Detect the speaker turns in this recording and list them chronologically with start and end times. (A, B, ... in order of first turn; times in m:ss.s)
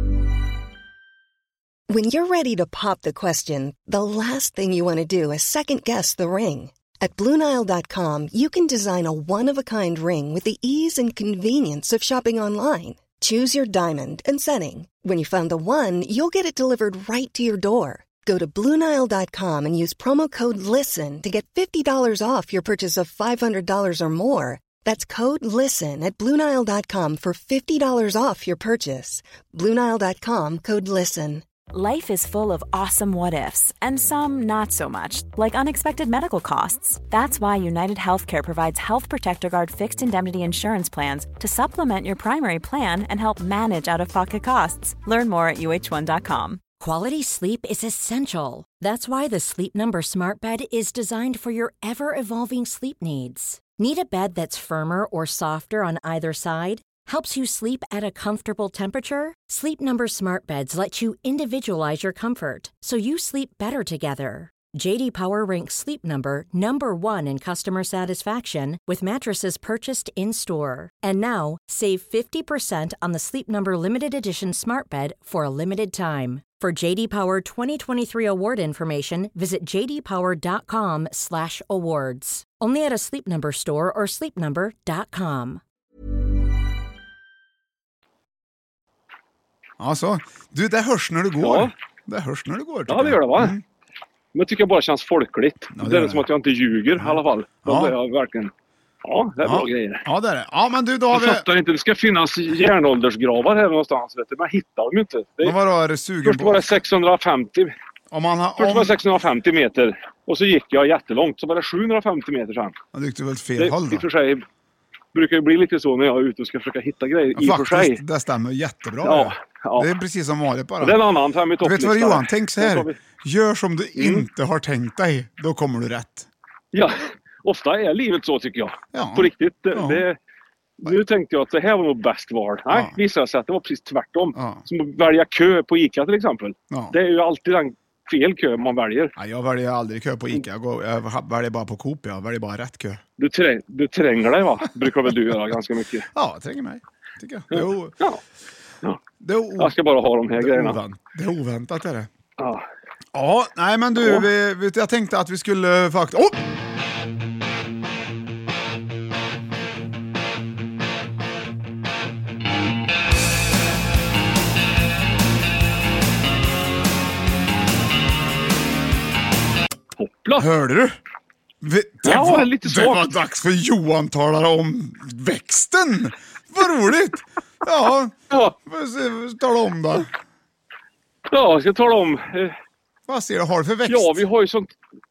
0:01.9-0:31.4 A
0:31.7-0:46.6 B
0:46.8-1:25.6 C
1:29.8-1:33.6 D
1:31.4-1:31.7 E
1:32.9-1:33.6 E
1:34.3-1:38.5 E
1:35.7-1:36.2 D
1:37.0-1:37.9 D
1:39.0-1:40.0 E
1:39.4-1:41.4 D
1:41.1-1:45.5 E
1:45.4-1:46.7 D
1:46.2-1:47.7 E
1:48.1-1:49.0 D
1:48.6-1:52.8 E
1:52.9-1:54.0 D
1:53.6-1:54.4 E
1:55.1-1:58.0 E
1:57.3-2:01.0 D
1:59.0-1:59.9 E
2:00.8-2:03.0 E
2:01.6-2:06.3 D
2:04.0-2:04.2 E
2:06.7-2:10.2 E
2:08.9-2:10.0 D
2:10.8-2:19.1 E
2:12.7-2:13.0 D
2:14.3-2:14.6 D
2:16.7-2:17.0 D
2:19.2-2:23.0 D
2:23.2-2:26.1 E
2:26.1-2:28.0 D
2:27.5-2:28.2 E
2:29.2-2:29.7 D
2:29.6-2:30.8 E
2:30.4-2:32.1 D
2:32.4-2:32.6 E
2:33.1-2:36.4 D
2:34.0-2:34.3 E
2:50.0-2:50.5 E
2:50.4-2:51.0 D
2:51.6-3:00.1 D
2:52.0-2:53.1 E
3:01.3-3:02.6 E
3:03.1-3:04.2 D
3:03.9-3:04.7 E